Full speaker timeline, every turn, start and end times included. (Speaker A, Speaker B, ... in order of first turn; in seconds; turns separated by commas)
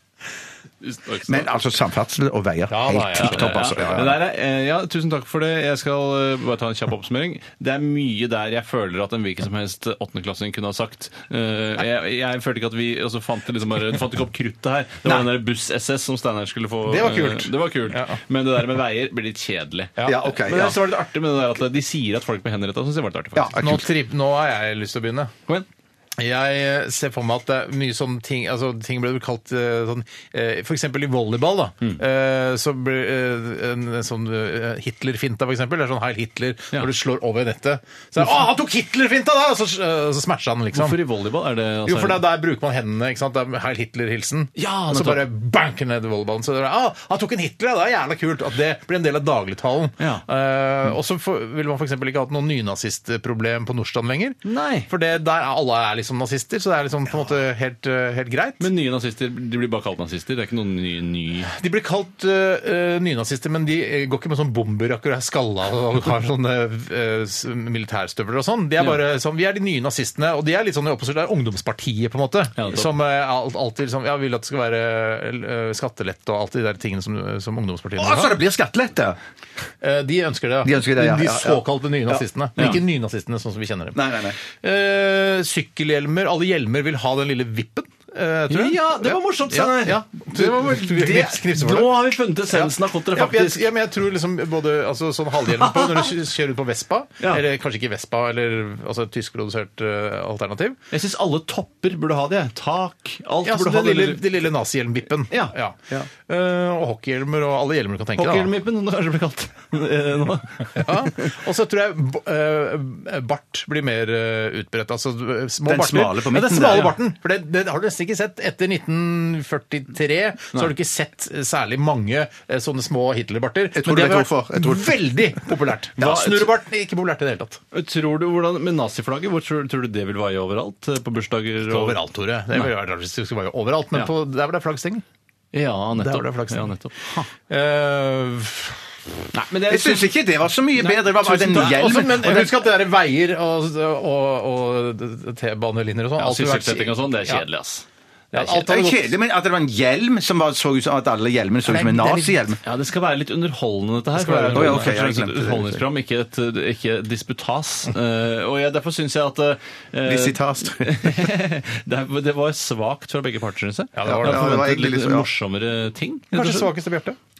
Speaker A: 0.8-1.6, Speaker B: 1.3-4.2, Speaker C: 2.7-3.8, Speaker A: 3.1-23.6, Speaker C: 16.9-18.2, Speaker B: 20.1-20.8, Speaker B: 23.4-23.9, Speaker C: 23.6-25.3, Speaker C: 26.2-41.0, Speaker A: 40.7-42.2, Speaker C: 41.9-54.4, Speaker A: 44.6-45.3, Speaker A: 50.0-50.2, Speaker A: 54.4-54.9, Speaker C: 54.9-58.6, Speaker A: 58.6-61.5, Speaker C: 61.5-78.4, Speaker A: 72.6-72.9, Speaker B: 78.0-79.2, Speaker C: 79.8-91.9, Speaker B: 80.6-82.7, Speaker B: 83.9-84.4, Speaker A: 88.5-93.7, Speaker C: 92.5-100.8, Speaker A: 95.6-96.1, Speaker A: 100.9-104.2, Speaker C: 103.4-108.5, Speaker A: 105.3-106.1, Speaker A: 108.2-111.3, Speaker C: 110.8-127.6, Speaker B: 115.6-116.9, Speaker B: 123.7-125.0, Speaker A: 126.0-126.5, Speaker A: 127.7-132.0, Speaker C: 131.6-135.0, Speaker A: 135.5-137.2, Speaker C: 135.9-136.7, Speaker C: 137.5-138.8, Speaker A: 139.3-140.1, Speaker B: 139.7-142.6, Speaker A: 140.8-142.0, Speaker C: 141.4-147.4, Speaker A: 146.2-147.8, Speaker C: 148.3-149.1, Speaker B: 148.4-152.6, Speaker C: 151.7-152.3, Speaker A: 152.6-166.7, Speaker C: 154.2-155.0, Speaker B: 154.5-155.8, Speaker B: 160.1-161.3, Speaker C: 163.9-164.6, Speaker B: 164.1-165.3, Speaker C: 166.3-167.2